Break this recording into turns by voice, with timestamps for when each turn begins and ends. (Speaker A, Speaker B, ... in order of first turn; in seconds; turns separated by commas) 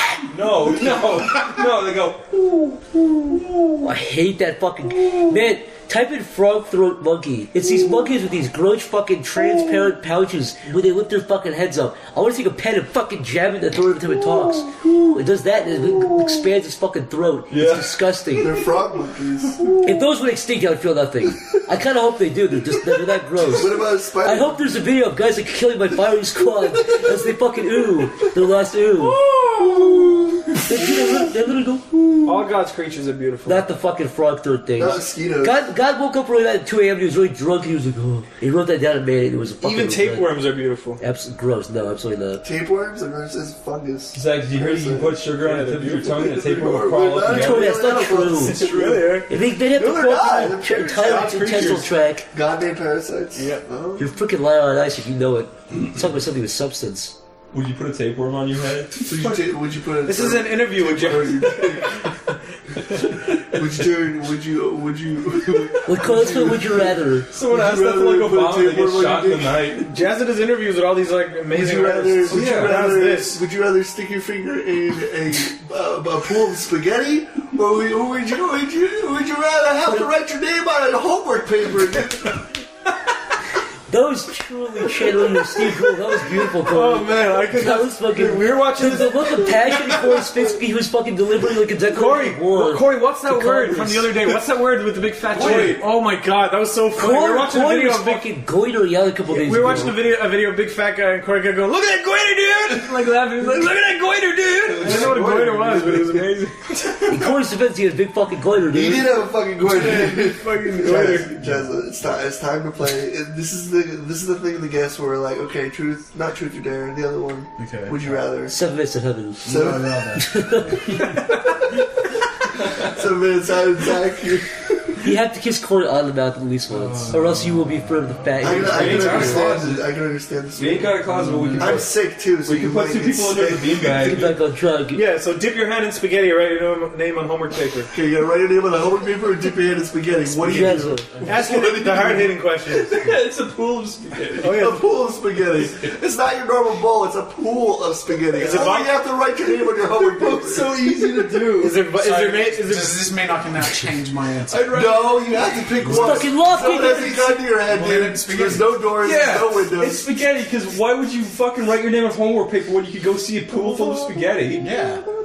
Speaker A: 0.2-2.3, Speaker B: 3.8-18.5, Speaker A: 17.5-18.1, Speaker C: 18.4-19.7, Speaker B: 19.8-29.2, Speaker C: 23.4-24.9, Speaker C: 29.5-30.6, Speaker B: 30.6-32.3, Speaker D: 32.2-33.7, Speaker B: 33.5-40.3, Speaker C: 34.8-35.6, Speaker D: 39.6-41.0, Speaker B: 41.0-42.4, Speaker C: 42.4-45.2, Speaker A: 44.1-48.0, Speaker D: 45.4-46.2, Speaker C: 46.1-54.1, Speaker B: 47.2-48.7, Speaker D: 48.4-49.3, Speaker B: 49.3-52.3, Speaker D: 51.0-51.9, Speaker D: 53.4-53.6, Speaker B: 54.0-57.2, Speaker A: 57.5-59.0, Speaker C: 59.0-62.0, Speaker D: 60.0-62.1, Speaker A: 63.2-63.6, Speaker C: 63.4-69.8, Speaker B: 65.8-67.3, Speaker A: 67.3-69.9, Speaker D: 69.9-73.4, Speaker C: 71.5-82.5, Speaker A: 72.3-72.7, Speaker B: 83.9-94.1, Speaker D: 86.7-89.5, Speaker D: 91.9-98.3, Speaker A: 95.4-95.7, Speaker E: 95.4-95.8, Speaker B: 95.4-95.7, Speaker B: 97.0-100.0, Speaker D: 99.3-106.6, Speaker A: 102.7-103.0, Speaker A: 103.6-105.3, Speaker C: 104.7-106.3, Speaker B: 107.1-109.3, Speaker C: 108.7-118.5, Speaker D: 109.6-111.3, Speaker E: 117.6-118.2, Speaker B: 118.5-120.8, Speaker E: 119.5-120.4, Speaker C: 119.5-120.2, Speaker C: 122.5-125.1, Speaker B: 125.0-129.4, Speaker E: 126.7-127.9, Speaker C: 128.4-134.3, Speaker A: 128.4-129.9, Speaker D: 128.8-129.2, Speaker A: 130.6-134.4, Speaker B: 134.0-135.0, Speaker D: 134.9-137.9, Speaker C: 137.9-142.3, Speaker B: 140.4-141.1, Speaker E: 140.4-141.4, Speaker D: 141.3-142.9, Speaker A: 142.7-144.7, Speaker D: 144.4-144.9, Speaker C: 144.4-151.7, Speaker A: 145.5-145.9, Speaker D: 148.3-149.0, Speaker A: 149.9-151.8, Speaker D: 151.6-153.2, Speaker E: 151.9-154.9, Speaker A: 154.5-156.0, Speaker C: 154.7-160.1, Speaker B: 155.9-157.4, Speaker E: 157.6-158.9, Speaker A: 159.0-164.7, Speaker C: 163.6-164.1, Speaker E: 164.6-165.0